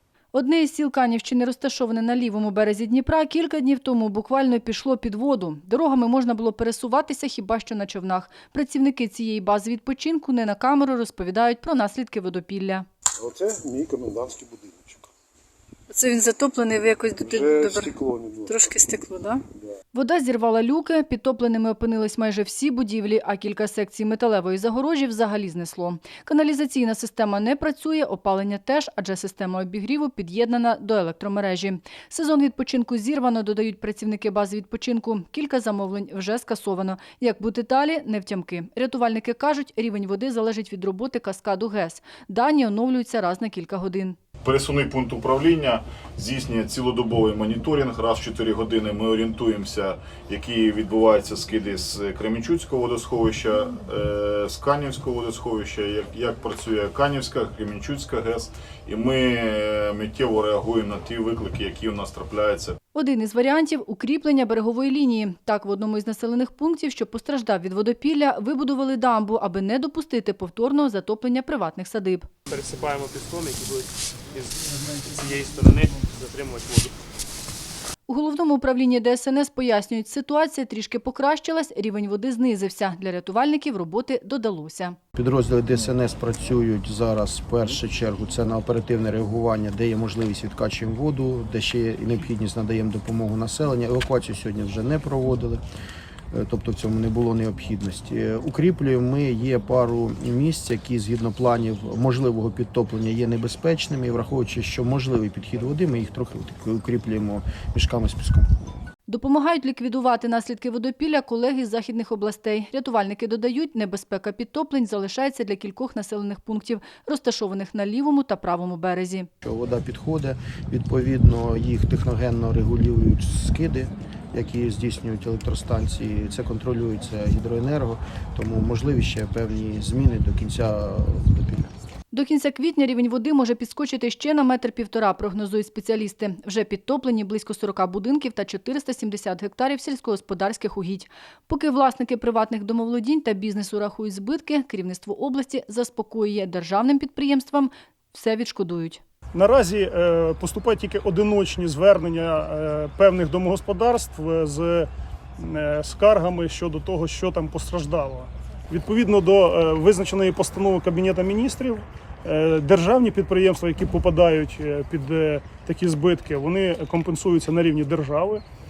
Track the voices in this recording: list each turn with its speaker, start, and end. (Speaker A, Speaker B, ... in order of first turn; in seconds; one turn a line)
Speaker A: 0.3-12.9
Speaker B: 13.2-15.0
Speaker A: 15.9-19.4
Speaker B: 17.4-18.5
Speaker A: 19.9-44.2
Speaker C: 44.4-62.8
Speaker A: 62.9-72.3
Speaker D: 72.5-76.9
Speaker A: 78.1-85.0
Speaker E: 85.2-95.6
Speaker E: 96.3-108.5
Speaker A: 109.1-119.3
Speaker E: 119.4-131.7
Speaker A: 132.1-149.0
Speaker F: 149.3-168.4